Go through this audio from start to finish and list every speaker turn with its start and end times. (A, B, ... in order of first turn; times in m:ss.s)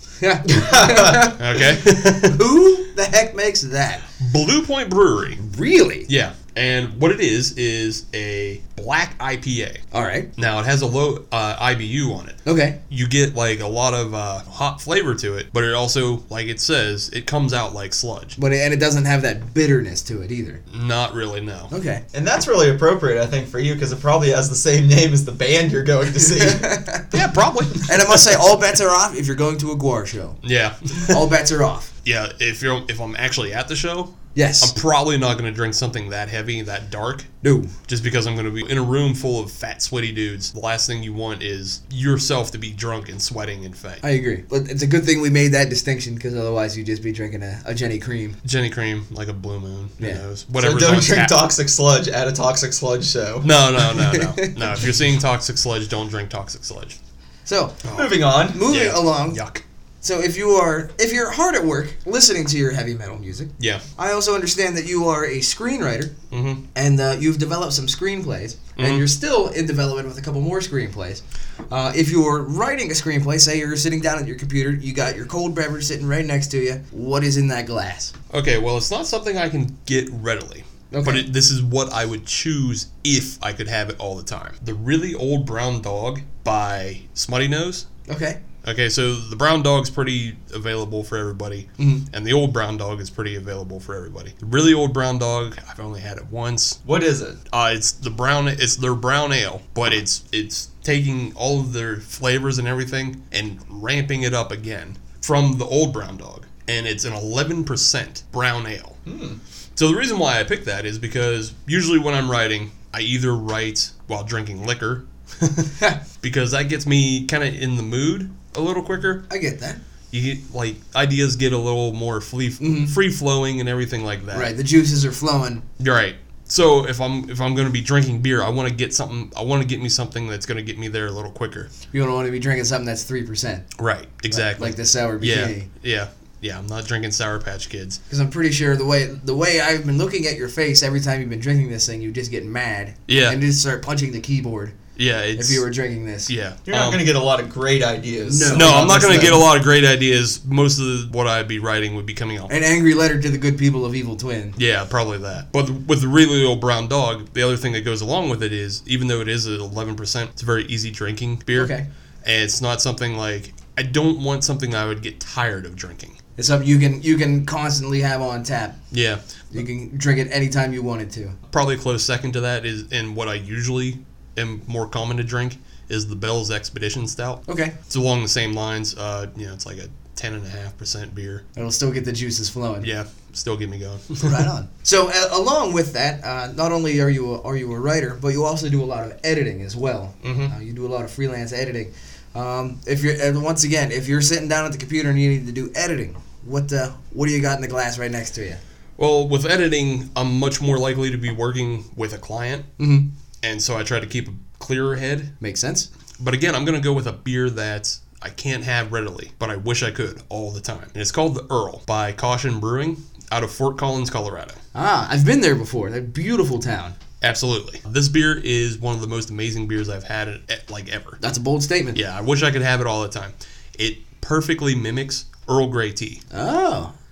0:00.2-0:04.0 A
0:00.5-0:01.3 B
0:01.3-0:02.4 C
0:04.2-0:05.4 C
0:05.4-0:06.1 A
0:06.1-0:09.8 C
0:09.9-0:10.3 A
0:10.4-0:18.4 C
0:12.4-0:12.8 A
0:18.4-0:20.6 A
0:20.7-0:21.7 C
0:21.7-0:22.0 A
0:22.1-0:26.8 B
0:26.2-0:27.1 A
0:27.1-0:28.4 C
0:27.8-0:30.4 A
0:30.4-0:31.2 C
0:30.9-0:31.9 A
0:32.0-0:37.3 C
0:34.4-0:34.7 A
0:37.4-0:37.7 A
0:37.9-0:44.0 C
0:44.0-0:48.4 A
0:48.4-0:51.4 C
0:50.6-0:53.5 B
0:53.4-0:57.0 C
0:53.8-0:54.8 A
0:57.5-0:57.8 A
0:57.8-0:59.6 C
0:57.9-0:58.6 B
0:58.5-0:59.4 A
1:00.0-1:06.1 A
1:06.3-1:06.6 C
1:06.8-1:18.1 A
1:08.8-1:09.0 C
1:18.3-1:27.9 C
1:20.9-1:21.3 A
1:28.1-1:28.4 A
1:28.6-1:36.8 C
1:31.8-1:32.1 A
1:36.8-1:37.4 B
1:37.5-1:49.0 C
1:49.1-1:49.4 B
1:49.8-1:59.2 C
1:59.3-1:59.8 A
2:00.1-2:04.5 C
2:02.6-2:03.0 A
2:04.3-2:05.6 A
2:05.8-2:11.7 C
2:11.9-2:13.6 A
2:13.8-2:18.0 C
2:14.3-2:15.7 A
2:18.1-2:24.8 A
2:23.1-2:23.4 C
2:25.0-2:25.6 C
2:25.4-2:26.3 A
2:26.3-2:27.0 C
2:26.7-2:28.9 B
2:28.3-2:29.5 A
2:28.5-2:32.5 C
2:32.5-2:34.6 A
2:34.6-2:46.2 C
2:41.6-2:41.9 A
2:46.4-2:48.8 A
2:48.9-2:49.2 C
2:49.5-2:51.4 A
2:51.5-3:01.4 C
2:57.5-2:57.7 A
3:01.6-3:02.9 A
3:02.8-3:04.5 C
3:04.2-3:18.6 A
3:10.2-3:10.5 C
3:19.0-3:22.7 C
3:22.8-3:23.1 A
3:23.4-3:25.3 C
3:25.4-3:25.9 A
3:26.2-3:34.6 C
3:34.8-3:37.0 A
3:37.2-3:41.2 C
3:41.2-3:42.0 A
3:41.9-3:46.2 C
3:46.3-3:46.9 A